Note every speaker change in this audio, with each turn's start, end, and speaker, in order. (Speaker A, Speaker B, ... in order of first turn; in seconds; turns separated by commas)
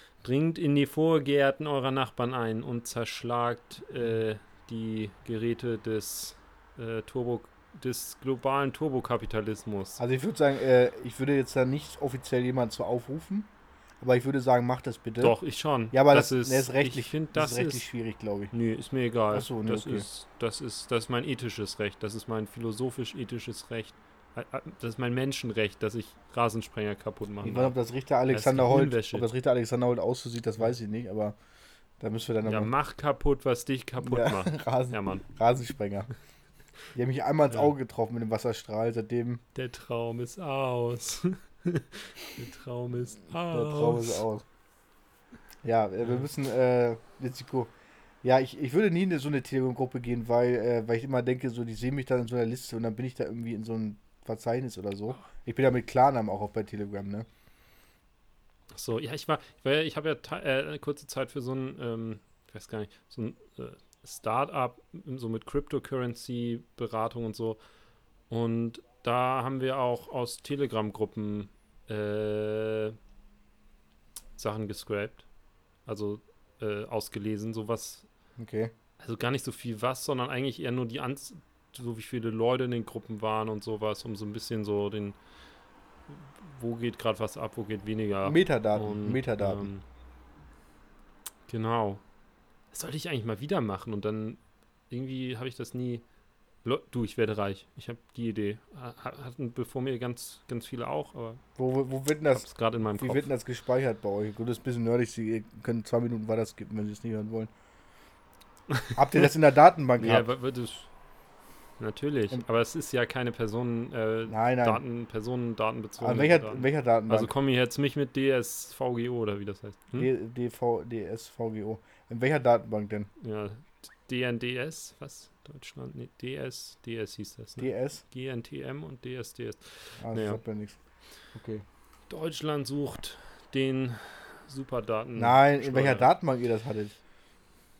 Speaker A: 0.2-10.0, Speaker B: 10.0-13.5, Speaker B: 14.0-15.4, Speaker A: 15.2-17.9, Speaker B: 15.9-18.5, Speaker A: 18.5-27.7, Speaker B: 19.3-20.0, Speaker B: 27.4-31.3, Speaker A: 28.3-29.3, Speaker B: 32.0-32.7, Speaker A: 32.4-35.2, Speaker B: 34.0-36.1, Speaker B: 36.9-39.4, Speaker A: 39.5-44.2, Speaker B: 43.5-44.4, Speaker B: 45.6-47.7, Speaker B: 48.2-57.3, Speaker A: 58.7-67.6, Speaker A: 68.3-73.0, Speaker A: 74.4-75.2, Speaker A: 75.8-78.1, Speaker B: 78.4-78.7, Speaker A: 79.0-85.2, Speaker A: 86.1-89.8, Speaker B: 88.2-89.7, Speaker A: 91.5-92.0, Speaker A: 92.7-96.0, Speaker A: 96.6-101.4, Speaker B: 101.5-102.5, Speaker A: 102.3-103.3, Speaker B: 103.0-107.5, Speaker B: 109.0-110.3, Speaker A: 110.0-110.9, Speaker A: 111.8-120.1, Speaker B: 114.3-114.8, Speaker B: 116.0-117.3, Speaker B: 119.9-123.1, Speaker A: 123.2-130.4, Speaker B: 127.6-128.0, Speaker B: 130.0-130.8, Speaker B: 131.3-131.6, Speaker A: 132.1-136.1, Speaker B: 135.2-137.0